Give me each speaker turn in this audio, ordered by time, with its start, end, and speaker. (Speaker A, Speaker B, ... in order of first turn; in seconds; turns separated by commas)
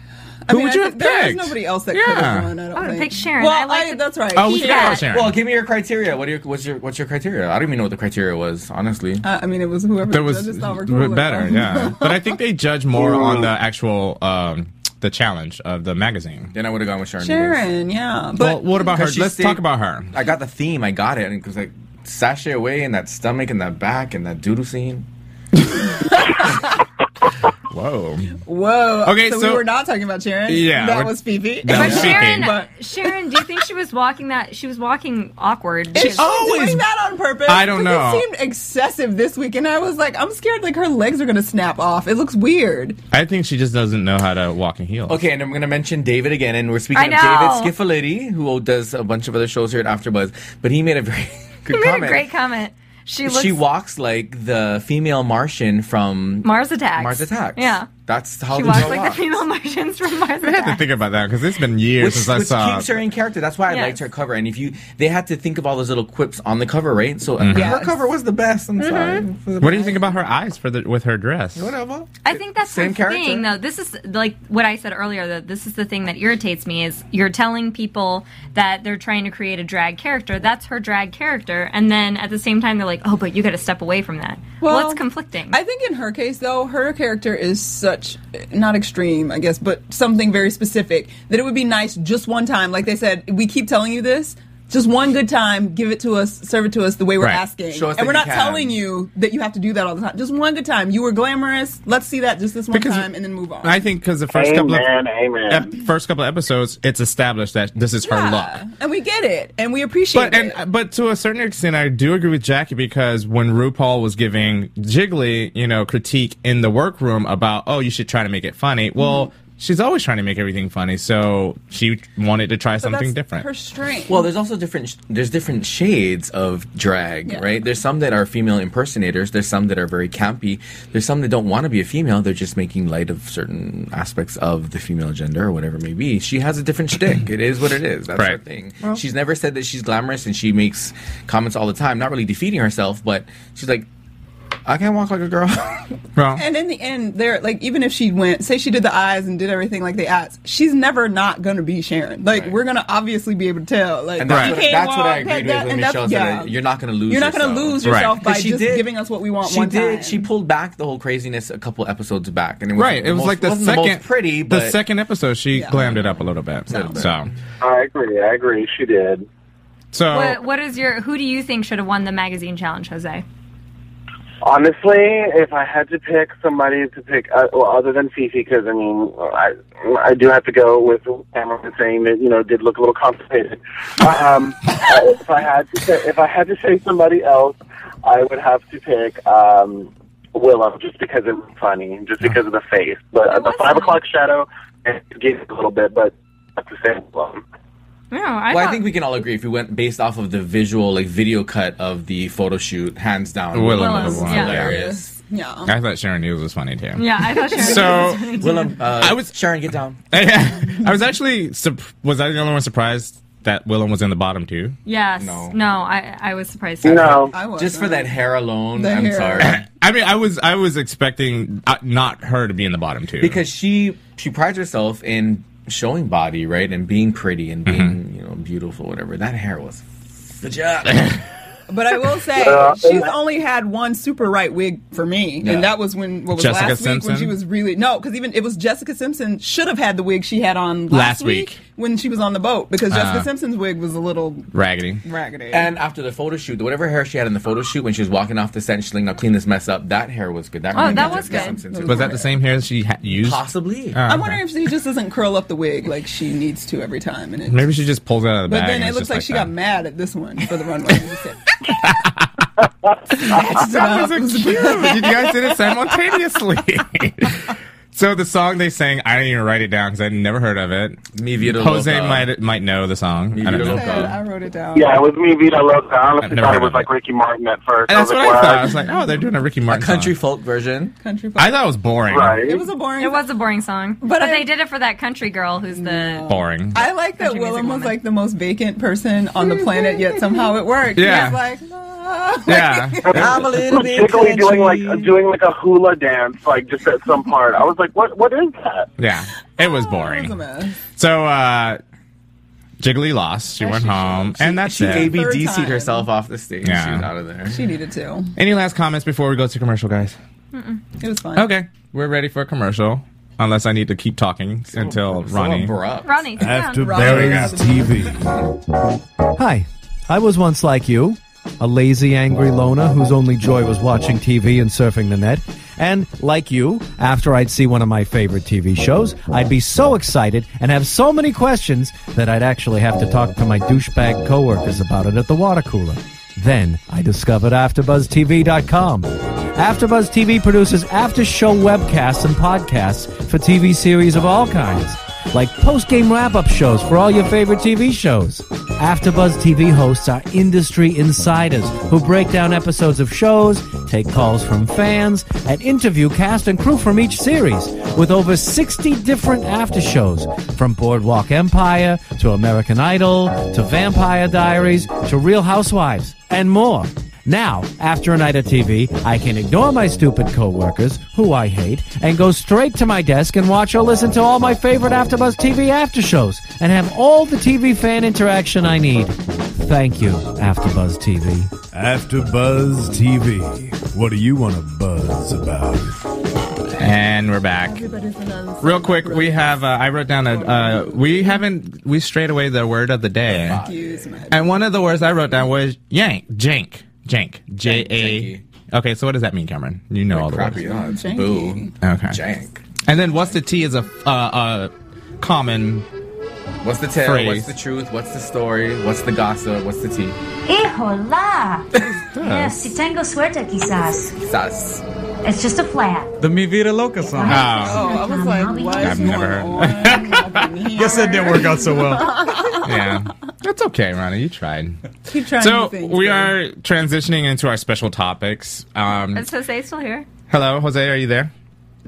Speaker A: 0.5-5.0, Speaker B: 0.5-2.5, Speaker C: 2.7-5.1, Speaker B: 4.3-5.4, Speaker D: 5.1-9.2, Speaker A: 9.2-12.3, Speaker B: 10.1-16.5, Speaker D: 16.5-17.6, Speaker A: 17.2-18.9, Speaker B: 18.4-20.1, Speaker D: 18.9-25.1, Speaker B: 27.7-28.4, Speaker A: 28.4-33.4, Speaker B: 29.0-29.6, Speaker B: 30.5-32.6, Speaker C: 31.7-36.4, Speaker A: 35.9-43.0, Speaker B: 36.0-36.8, Speaker B: 37.5-38.3, Speaker B: 43.1-45.2, Speaker D: 45.1-52.3, Speaker C: 46.9-47.7, Speaker C: 51.7-53.6, Speaker D: 53.2-59.3, Speaker C: 56.4-57.9, Speaker C: 58.5-60.9, Speaker B: 60.4-62.9, Speaker D: 62.0-70.1, Speaker C: 63.7-64.0, Speaker B: 67.4-67.8, Speaker A: 67.5-68.0, Speaker C: 68.8-69.2, Speaker B: 69.6-71.7, Speaker D: 71.5-73.5, Speaker C: 72.2-85.6, Speaker A: 84.6-103.8, Speaker D: 97.7-98.8, Speaker B: 102.7-103.1, Speaker B: 103.6-104.8, Speaker E: 104.3-105.7, Speaker B: 105.5-108.6, Speaker A: 108.0-110.6, Speaker B: 110.1-123.5, Speaker A: 119.0-119.3, Speaker A: 122.8-124.3, Speaker D: 124.1-143.9, Speaker B: 138.1-139.0, Speaker D: 144.7-145.9, Speaker B: 146.2-146.4, Speaker A: 146.4-156.5, Speaker D: 152.3-152.6, Speaker D: 154.2-158.9, Speaker B: 154.2-154.6, Speaker A: 157.1-160.3, Speaker B: 157.8-158.2, Speaker D: 159.4-164.8, Speaker B: 162.7-167.3, Speaker A: 165.5-165.8, Speaker D: 165.8-167.1, Speaker A: 166.7-167.1, Speaker E: 167.6-169.2, Speaker B: 169.9-170.4, Speaker C: 170.1-173.2, Speaker E: 174.4-197.4, Speaker C: 193.3-194.0, Speaker C: 198.1-198.9, Speaker D: 198.5-205.1, Speaker B: 203.5-204.8, Speaker C: 203.7-204.6, Speaker A: 204.4-205.7, Speaker B: 205.7-208.4, Speaker C: 206.9-208.7, Speaker A: 207.6-207.9, Speaker D: 208.3-210.1, Speaker B: 209.0-209.3, Speaker B: 210.1-214.8, Speaker C: 214.8-217.2, Speaker D: 215.2-215.6, Speaker E: 216.8-217.3, Speaker D: 216.8-219.6, Speaker A: 217.3-218.2, Speaker A: 218.7-219.5, Speaker B: 219.4-223.4, Speaker D: 223.2-231.2, Speaker B: 227.7-227.9, Speaker B: 230.9-231.2, Speaker A: 231.7-244.5, Speaker E: 232.4-233.1, Speaker D: 235.4-235.7, Speaker B: 236.3-237.4, Speaker B: 240.9-241.6, Speaker B: 242.9-243.3, Speaker B: 244.5-245.0, Speaker A: 245.0-245.7, Speaker D: 245.5-252.3, Speaker C: 250.7-251.6, Speaker A: 250.7-252.3, Speaker B: 251.9-254.4, Speaker D: 253.1-254.0, Speaker A: 254.1-257.7, Speaker B: 257.5-259.5, Speaker A: 258.5-261.6, Speaker B: 261.8-262.3, Speaker A: 263.1-265.9, Speaker B: 263.2-274.1, Speaker D: 271.1-272.3, Speaker D: 273.3-274.2, Speaker A: 273.6-274.9, Speaker E: 274.7-278.8, Speaker B: 276.2-276.9, Speaker B: 277.9-280.1, Speaker D: 279.7-280.9, Speaker A: 281.0-281.7, Speaker B: 281.4-282.4, Speaker E: 282.1-282.6, Speaker A: 282.4-283.3, Speaker C: 283.0-286.3, Speaker A: 284.0-284.5, Speaker A: 285.7-293.4, Speaker B: 286.3-286.8, Speaker C: 287.2-288.0, Speaker B: 290.9-291.4, Speaker B: 292.4-293.4, Speaker E: 293.1-298.9, Speaker D: 293.1-295.1, Speaker B: 299.0-300.4, Speaker A: 299.6-300.8, Speaker B: 300.9-301.8, Speaker B: 302.8-305.1, Speaker A: 303.6-306.1, Speaker D: 304.4-307.6, Speaker B: 306.6-307.1, Speaker A: 307.5-308.3, Speaker B: 308.4-310.1, Speaker C: 310.5-310.8, Speaker A: 311.0-311.5, Speaker B: 311.3-315.7, Speaker D: 314.7-316.3, Speaker C: 316.0-317.0, Speaker F: 316.4-318.3, Speaker A: 316.8-318.0, Speaker B: 316.9-317.5, Speaker G: 319.3-381.5, Speaker F: 381.7-386.0, Speaker B: 386.8-387.9, Speaker A: 387.6-389.6, Speaker B: 388.6-393.6, Speaker A: 390.2-391.4, Speaker D: 393.2-394.0, Speaker A: 393.5-394.5, Speaker B: 394.3-400.6, Speaker D: 397.6-398.4, Speaker D: 400.1-402.8, Speaker A: 400.6-401.7, Speaker B: 401.8-402.2, Speaker B: 402.8-405.8, Speaker D: 406.6-410.1, Speaker B: 407.0-407.5, Speaker H: 410.4-414.2, Speaker B: 412.1-412.7, Speaker D: 414.2-414.8, Speaker H: 415.2-416.1, Speaker I: 416.2-417.6, Speaker H: 417.0-419.2, Speaker A: 417.3-422.9, Speaker B: 417.3-417.9, Speaker B: 418.8-420.5, Speaker I: 420.7-422.6, Speaker B: 422.6-424.8, Speaker A: 425.1-426.3, Speaker B: 425.3-429.3, Speaker C: 429.1-430.1, Speaker B: 430.3-431.3